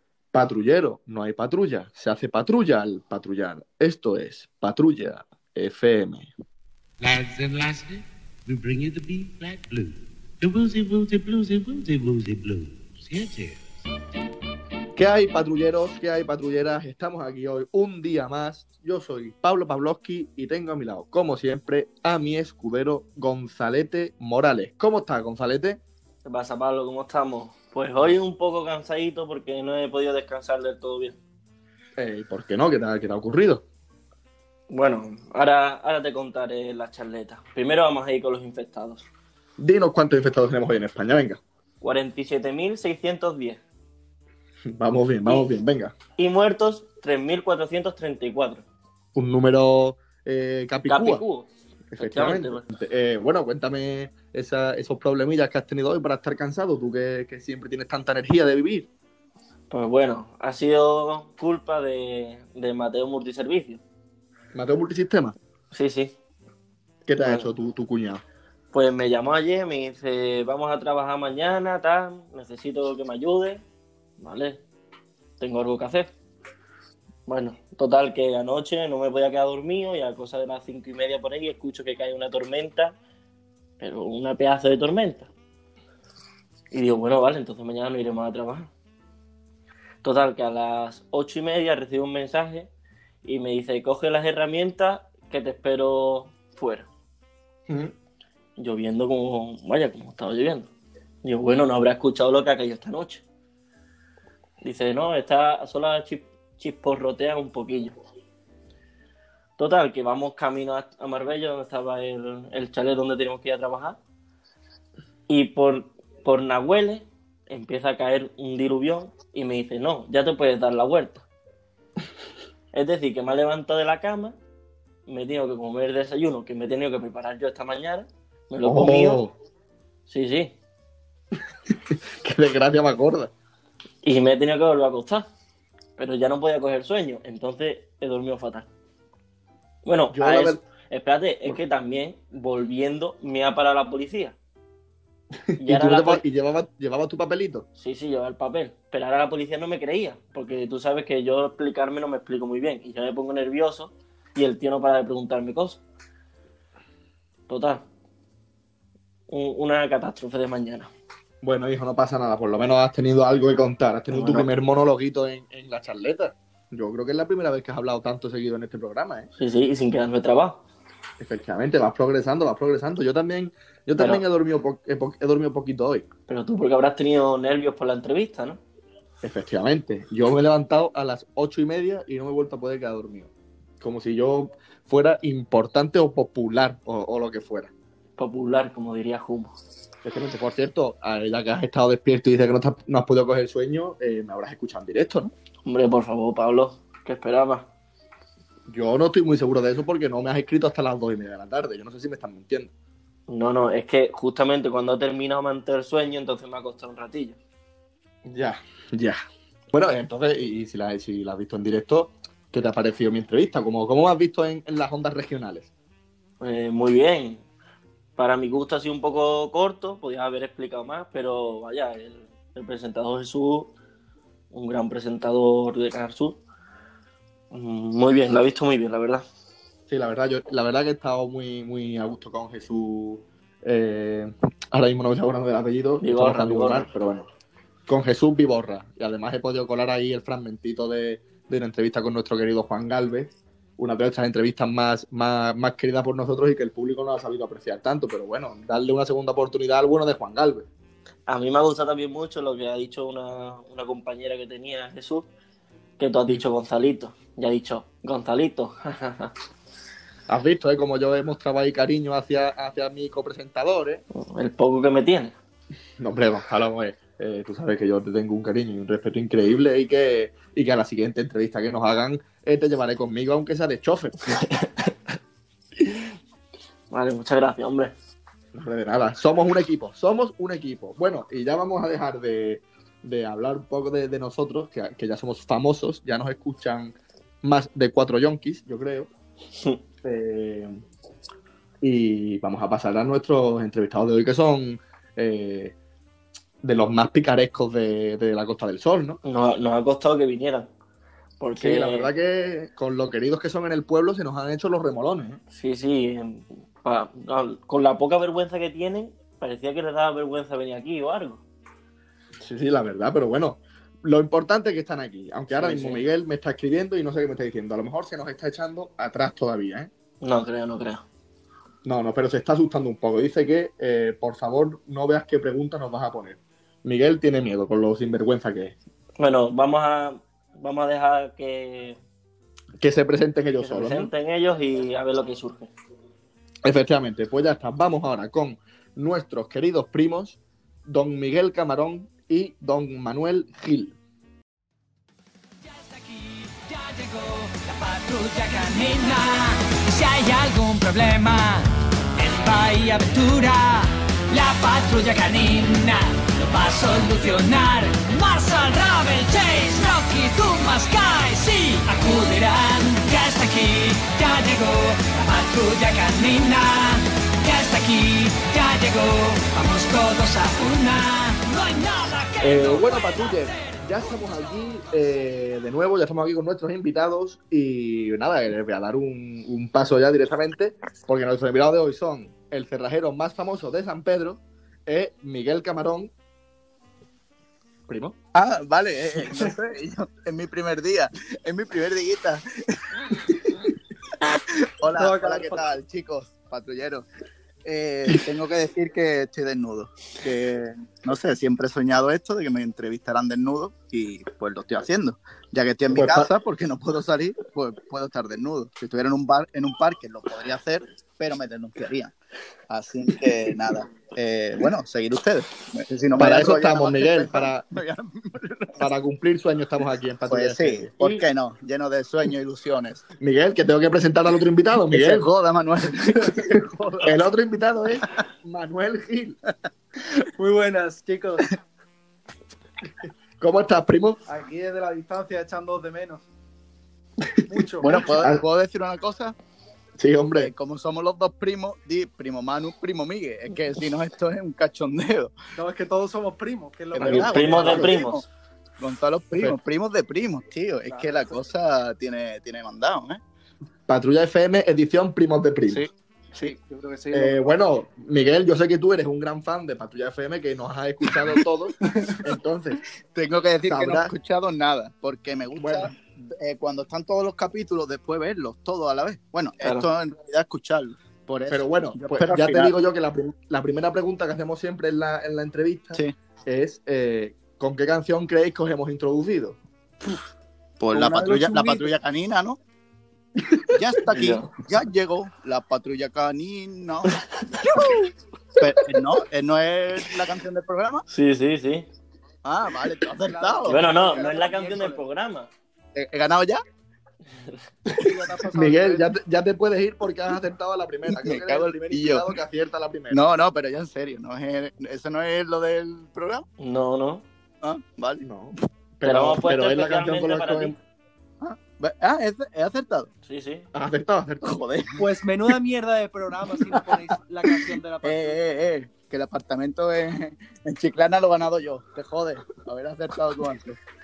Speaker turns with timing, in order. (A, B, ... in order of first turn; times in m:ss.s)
0:00.3-0:06.3 A
0:07.0-0:13.7 B
0:15.0-0:25.8 A
0:26.2-0:31.2 C
0:32.0-0:33.6 A
0:34.7-0:39.0 C
0:39.6-0:41.4 A
0:41.8-0:43.6 C
0:44.7-0:45.9 A
0:46.2-0:48.6 C
0:49.1-0:51.2 A
0:50.9-0:51.5 C
0:51.9-0:58.9 A
0:52.0-0:52.6 C
0:59.7-1:03.8 C
1:04.5-1:05.3 A
1:05.7-1:06.1 C
1:07.0-1:08.2 A
1:07.2-1:07.5 C
1:08.7-1:13.6 C
1:14.2-1:14.6 C
1:15.4-1:16.1 C
1:17.3-1:23.0 C
1:23.8-1:25.3 C
1:26.7-1:28.7 C
1:30.0-1:32.7 C
1:33.2-1:36.9 C
1:37.7-1:37.9 A
1:38.6-1:40.7 C
1:41.2-1:43.2 C
1:44.6-1:47.9 C
1:49.6-1:54.0 C
1:55.3-2:01.2 C
2:02.7-2:04.3 C
2:05.1-2:09.2 C
2:08.6-2:09.3 A
2:10.1-2:10.5 C
2:11.9-2:13.3 A
2:14.0-2:15.3 C
2:16.0-2:18.7 C
2:19.8-2:24.4 C
2:20.1-2:20.6 A
2:25.5-2:27.6 A
2:25.6-2:26.2 C
2:27.8-2:35.8 C
2:37.5-2:37.8 C
2:39.3-2:40.9 C
2:41.4-2:49.3 A
2:44.1-2:44.5 C
2:49.4-2:50.6 C
2:51.2-2:56.1 A
2:54.0-2:54.2 C
2:56.3-2:58.6 C
2:59.2-3:03.3 A
3:03.8-3:07.7 A
3:08.2-3:09.5 C
3:10.0-3:15.3 A
3:15.6-3:17.7 C
3:18.7-3:22.7 A
3:23.3-3:27.4 C
3:28.2-3:29.2 A
3:29.7-3:35.7 A
3:36.4-3:37.4 C
3:38.2-3:43.7 C
3:44.5-3:46.4 C
3:47.5-3:49.2 C
3:49.9-3:57.3 A
3:56.0-3:56.9 C
3:57.9-4:10.6 A
4:11.3-4:15.3 C
4:16.0-4:19.3 C
4:20.3-4:24.0 A
4:24.1-4:25.3 C
4:26.0-4:34.4 A
4:36.9-4:37.9 C
4:38.5-4:49.1 A
4:50.0-4:50.8 A
4:51.8-4:55.7 A
4:56.6-4:59.2 A
4:59.2-5:00.7 C
5:01.4-5:02.1 C
5:01.6-5:05.4 A
5:05.5-5:11.4 C
5:12.4-5:19.9 A
5:15.5-5:16.1 C
5:20.2-5:21.0 C
5:21.8-5:28.8 A
5:29.2-5:32.0 C
5:32.8-5:34.1 A
5:33.6-5:35.7 C
5:36.6-5:44.0 A
5:45.6-6:14.5 D
6:12.4-6:26.1 A
6:27.9-6:28.1 A
6:28.3-6:33.5 E
6:34.3-6:37.1 E
6:34.9-6:35.7 F
6:37.6-6:52.1 E
6:45.9-6:46.3 A
6:52.7-6:58.8 E
6:56.2-6:57.6 A
6:58.8-7:01.2 A
7:00.3-7:03.0 E
7:03.2-7:05.3 A
7:04.9-7:07.1 E
7:07.0-7:09.4 A
7:10.4-7:11.5 F
7:13.4-7:14.2 A
7:14.3-7:16.2 F
7:17.5-7:18.2 F
7:17.8-7:19.4 E
7:20.0-7:20.5 A
7:20.4-7:25.3 E
7:25.5-7:27.9 F
7:26.9-7:28.2 E
7:27.0-7:27.9 A
7:27.0-7:28.2 C
7:28.8-7:33.2 E
7:30.9-7:31.3 F
7:33.9-7:35.8 A
7:35.7-7:36.6 E
7:36.4-7:37.6 F
7:37.1-7:42.8 A
7:43.1-7:52.8 E
7:43.6-7:44.1 A
7:45.6-7:45.9 A
7:51.5-7:59.6 A
8:00.8-8:02.6 E
8:00.9-8:01.9 F
8:03.7-8:07.2 E
8:04.1-8:04.5 A
8:08.6-8:11.0 E
8:11.1-8:11.8 C
8:12.4-8:13.9 E
8:13.2-8:15.0 F
8:13.7-8:15.5 C
8:15.9-8:16.6 E
8:17.9-8:19.0 F
8:18.5-8:23.2 A
8:21.0-8:22.3 E
8:23.1-8:26.4 E
8:26.6-8:27.2 C
8:27.6-8:28.2 E
8:28.2-8:30.7 A
8:29.0-8:30.8 C
8:31.4-8:33.1 E
8:33.2-8:33.7 C
8:33.7-8:34.6 A
8:34.4-8:35.1 E
8:35.0-8:38.4 F
8:36.7-8:37.0 E
8:38.0-8:43.8 E